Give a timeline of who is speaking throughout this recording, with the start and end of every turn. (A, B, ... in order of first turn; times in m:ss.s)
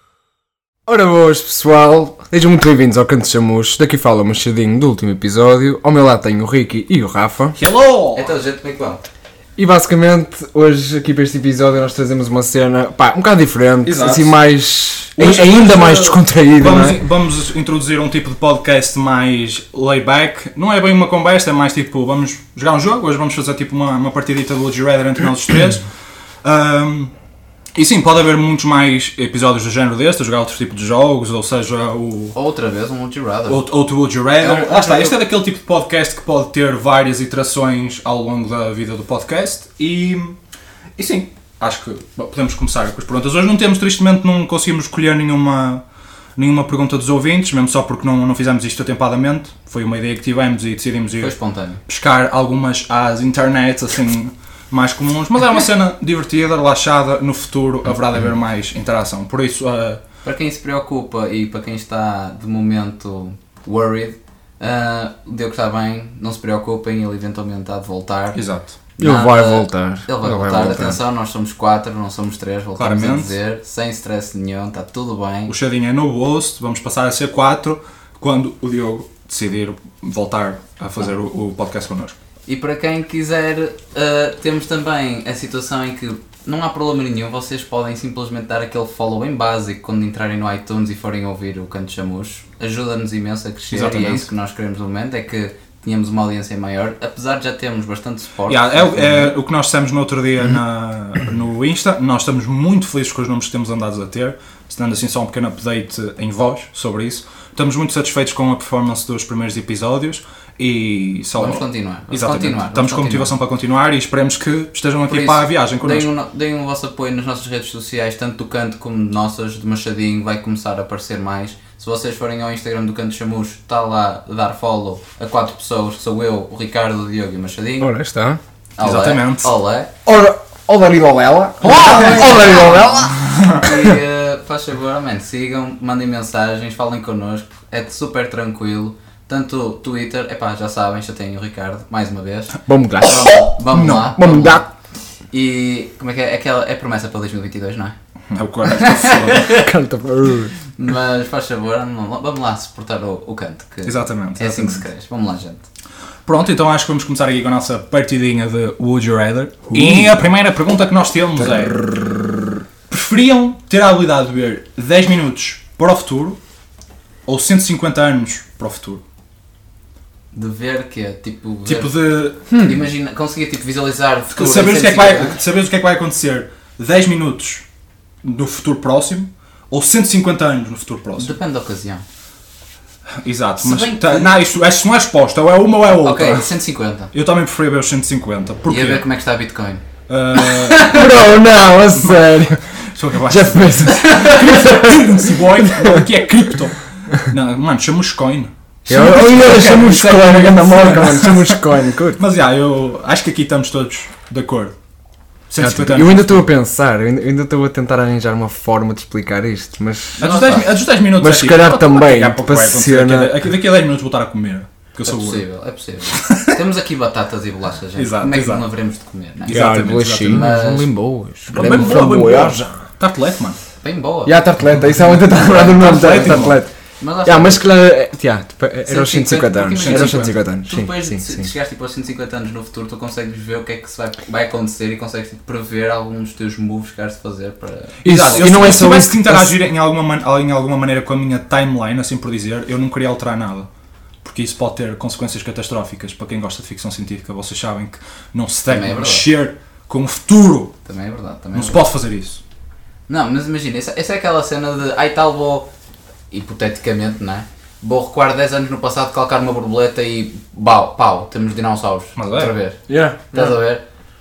0:00.8-0:07.6 A
0:07.6-0:08.3 B
0:08.1-0:09.0 C
0:09.6-0:17.0 A
0:13.8-0:14.4 B
0:15.2-0:25.9 B
0:26.4-0:27.1 B
0:27.7-0:32.3 B
0:32.3-0:33.6 C
0:33.5-0:40.4 B
0:34.4-0:35.1 A
0:41.0-0:45.8 B
0:46.4-0:51.3 B
0:51.2-0:51.8 C
0:51.9-1:00.0 B
1:00.2-1:08.4 C
1:08.3-1:08.7 B
1:09.0-1:11.0 A
1:09.0-1:15.5 C
1:12.8-1:13.3 B
1:15.5-1:22.2 B
1:22.5-1:39.3 C
1:33.7-1:34.2 B
1:38.5-1:56.1 B
1:51.4-1:53.3 C
1:55.1-2:07.9 C
2:07.8-2:08.4 A
2:08.8-2:09.9 C
2:08.8-2:09.5 B
2:10.0-2:14.0 A
2:11.6-2:13.6 B
2:11.6-2:24.6 C
2:22.6-2:24.7 A
2:23.8-2:24.1 B
2:25.3-2:28.0 C
2:28.3-2:29.5 B
2:28.7-2:29.7 C
2:29.5-2:30.5 A
2:30.8-2:35.6 C
2:33.8-2:34.8 B
2:36.2-2:41.8 B
2:39.7-2:40.1 A
2:41.7-2:42.1 A
2:42.9-2:46.4 B
2:47.3-2:49.0 B
2:50.3-2:55.4 C
2:51.6-2:52.5 B
2:52.5-2:52.8 A
2:54.3-2:57.6 B
2:58.2-3:01.4 B
3:01.2-3:02.0 C
3:03.2-3:06.5 B
3:03.6-3:04.3 C
3:06.0-3:07.1 C
3:07.1-3:09.0 B
3:08.7-3:09.8 C
3:10.1-3:11.1 B
3:10.7-3:12.7 A
3:12.0-3:21.6 B
3:13.2-3:16.1 A
3:13.9-3:14.3 C
3:18.9-3:22.2 A
3:22.2-3:24.7 B
3:25.5-3:26.5 B
3:25.6-3:30.3 A
3:30.2-3:35.4 B
3:30.2-3:30.7 C
3:31.1-3:33.4 A
3:35.0-3:40.9 C
3:36.1-3:36.6 B
3:38.0-3:38.6 B
3:39.4-3:40.5 B
3:39.5-3:42.8 A
3:41.5-3:43.6 B
3:41.5-3:41.9 C
3:43.8-3:44.4 C
3:44.2-3:46.7 A
3:45.2-3:47.6 C
3:45.6-3:46.6 B
3:47.2-3:51.5 A
3:48.8-3:58.7 C
3:49.8-3:50.3 B
3:58.0-3:59.6 A
3:58.0-4:03.7 B
4:04.2-4:10.7 B
4:08.7-4:09.3 C
4:10.8-4:11.9 C
4:11.5-4:12.4 B
4:13.1-4:15.7 C
4:16.3-4:22.8 C
4:22.2-4:22.5 B
4:22.9-4:23.3 A
4:23.3-4:23.8 C